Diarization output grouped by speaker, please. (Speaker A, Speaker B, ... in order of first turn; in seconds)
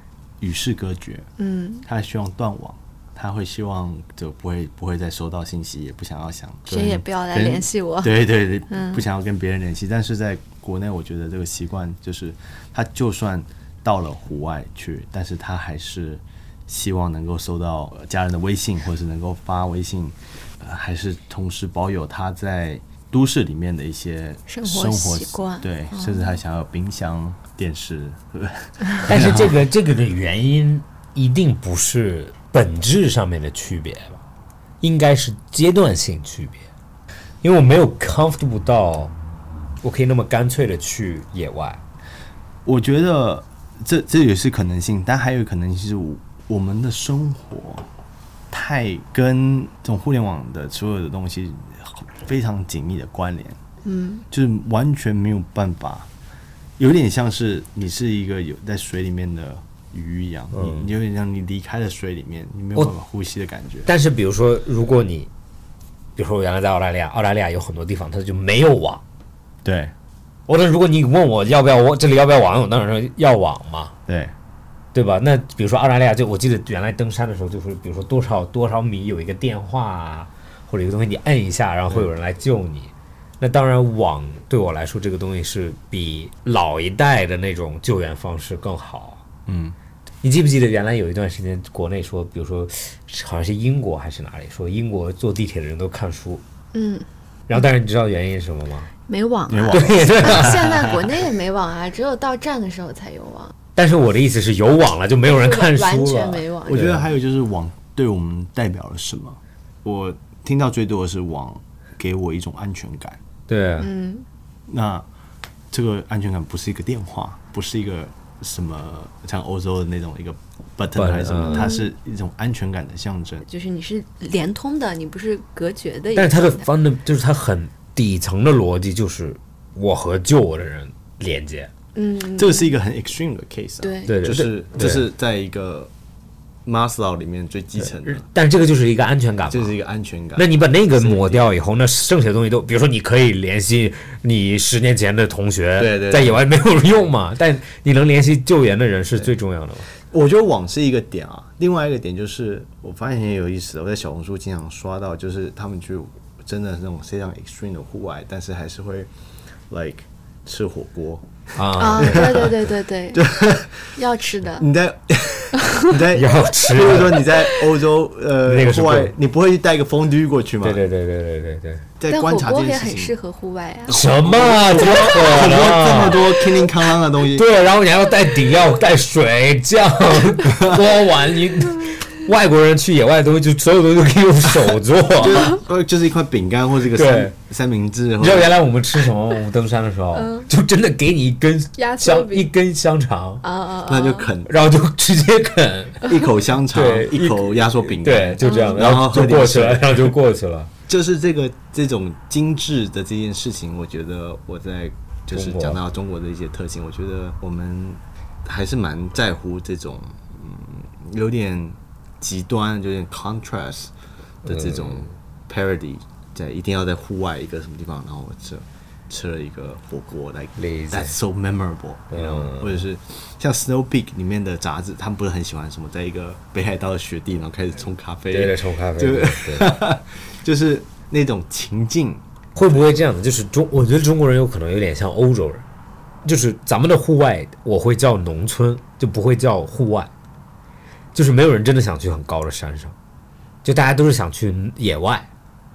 Speaker A: 0.4-1.3, 1.8-29.6, 42.6-47.9, 48.5-53.6, 54.3-56.1, 56.8-63.9, 69.6-69.9, 74.1-74.3, 89.5-89.7, 99.5-100.8, 106.6-113.2, 114.7-115.0, 115.7-123.4, 132.3-135.9, 136.7-138.2, 139.5-141.5, 145.8-146.4, 150.0-159.1, 159.7-162.5, 163.1-163.9, 164.6-170.8, 172.0-173.1, 173.9-177.4, 180.4-180.8, 185.2-188.5, 193.8-194.5, 196.0-200.1, 200.9-213.9, 214.4-232.2
Speaker B: 1.4-1.8, 6.7-9.0, 24.5-26.4, 53.8-54.2, 96.7-97.1, 99.1-103.5, 105.2-106.8, 113.8-114.2, 121.5-121.9, 123.5-126.7, 131.9-132.7, 133.8-134.2, 161.8-163.3, 163.9-164.7, 172.1-174.0, 190.1-190.5, 191.8-192.5, 193.4-194.3, 198.4-198.9
Speaker C: 29.1-34.2, 34.8-36.6, 37.4-39.1, 39.8-41.8, 60.5-60.9, 63.9-65.3, 66.2-69.0, 70.5-73.9, 74.9-89.2, 90.2-96.4, 97.5-98.9, 99.7-100.8, 103.8-107.0, 113.5-113.9, 121.0-121.7, 126.1-131.7, 134.1-135.1, 138.0-139.8, 140.3-149.9, 161.6-162.6, 166.1-167.3, 168.4-169.1, 170.6-171.9, 173.9-176.7, 177.3-185.6, 186.9-187.3, 188.2-193.4, 194.4-196.2, 196.7-200.7, 205.3-205.8, 214.5-215.1, 220.6-221.2, 222.1-222.8, 228.3-229.8, 232.5-235.6, 236.2-240.1, 241.1-242.9, 243.6-245.3